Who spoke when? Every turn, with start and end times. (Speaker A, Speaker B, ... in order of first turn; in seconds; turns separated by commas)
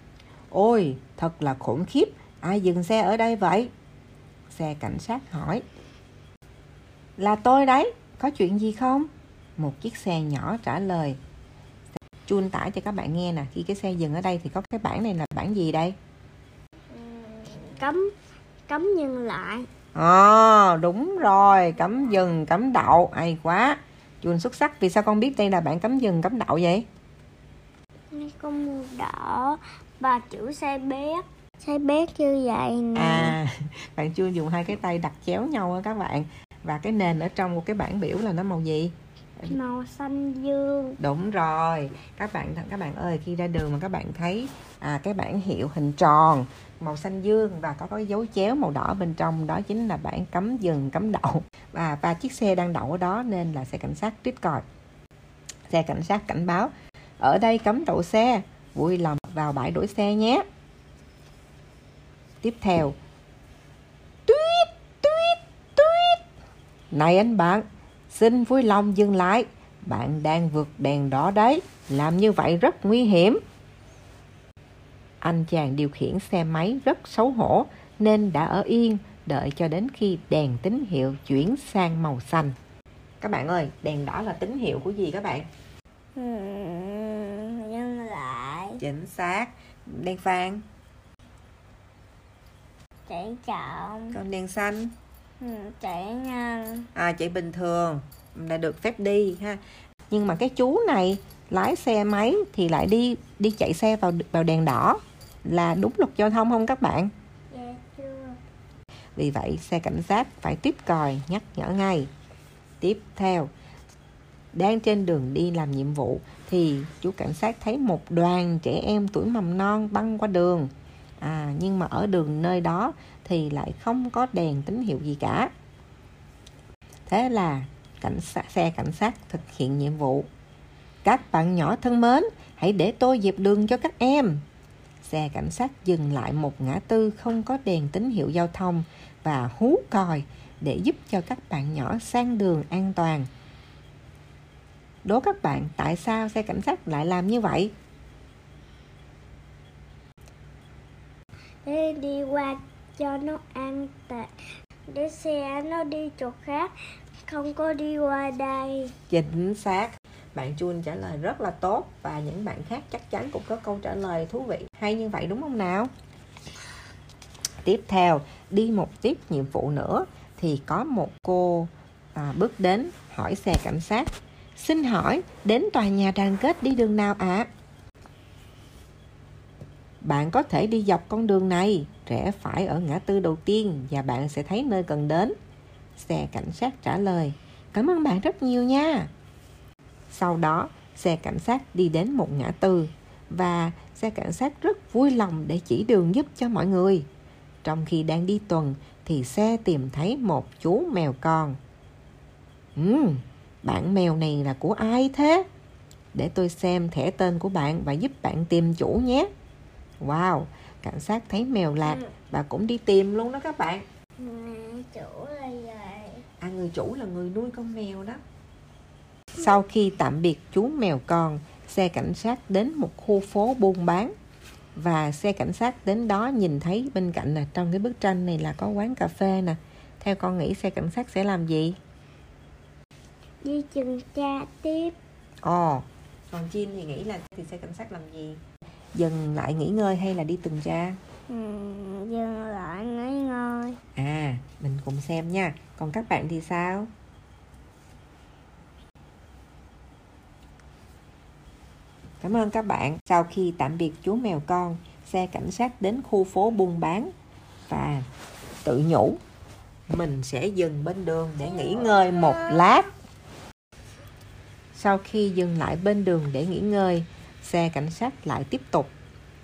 Speaker A: 0.5-3.7, Speaker A: 4.5-5.6, Speaker A: 7.2-11.2, Speaker A: 12.3-15.9, Speaker B: 16.9-18.1, Speaker B: 18.7-19.7, Speaker A: 19.9-26.9, Speaker B: 28.1-33.4, Speaker A: 32.9-39.5, Speaker B: 39.5-41.0, Speaker A: 41.0-54.6, Speaker A: 55.7-60.4, Speaker A: 62.4-63.0, Speaker A: 64.3-66.2, Speaker A: 66.9-73.4, Speaker A: 75.2-82.5, Speaker A: 83.2-85.5, Speaker B: 86.2-88.8, Speaker A: 88.8-90.6, Speaker B: 93.1-94.2, Speaker A: 94.1-94.9, Speaker B: 95.4-96.9, Speaker A: 96.9-107.1, Speaker B: 107.5-108.4, Speaker A: 109.2-112.1, Speaker A: 112.8-113.5, Speaker A: 114.5-125.5, Speaker A: 127.1-130.3, Speaker A: 131.0-134.4, Speaker A: 135.0-143.3, Speaker A: 145.0-147.7, Speaker B: 151.6-154.3, Speaker B: 154.9-156.7, Speaker B: 157.3-158.9, Speaker A: 159.1-165.9, Speaker A: 167.6-177.5, Speaker A: 180.0-185.3, Speaker A: 185.9-189.1, Speaker A: 190.1-197.0, Speaker A: 197.6-201.6, Speaker A: 202.8-205.4, Speaker A: 206.1-209.3, Speaker A: 210.0-213.8, Speaker B: 214.2-216.2, Speaker A: 216.4-218.2, Speaker A: 219.3-224.1, Speaker A: 224.8-231.8, Speaker B: 233.4-234.9, Speaker A: 235.4-238.4, Speaker A: 238.9-241.0, Speaker B: 241.3-243.8, Speaker A: 243.9-246.9, Speaker A: 252.2-257.1, Speaker A: 257.7-258.1, Speaker A: 258.6-259.2, Speaker A: 259.9-262.9, Speaker B: 261.6-262.8, Speaker A: 264.7-268.9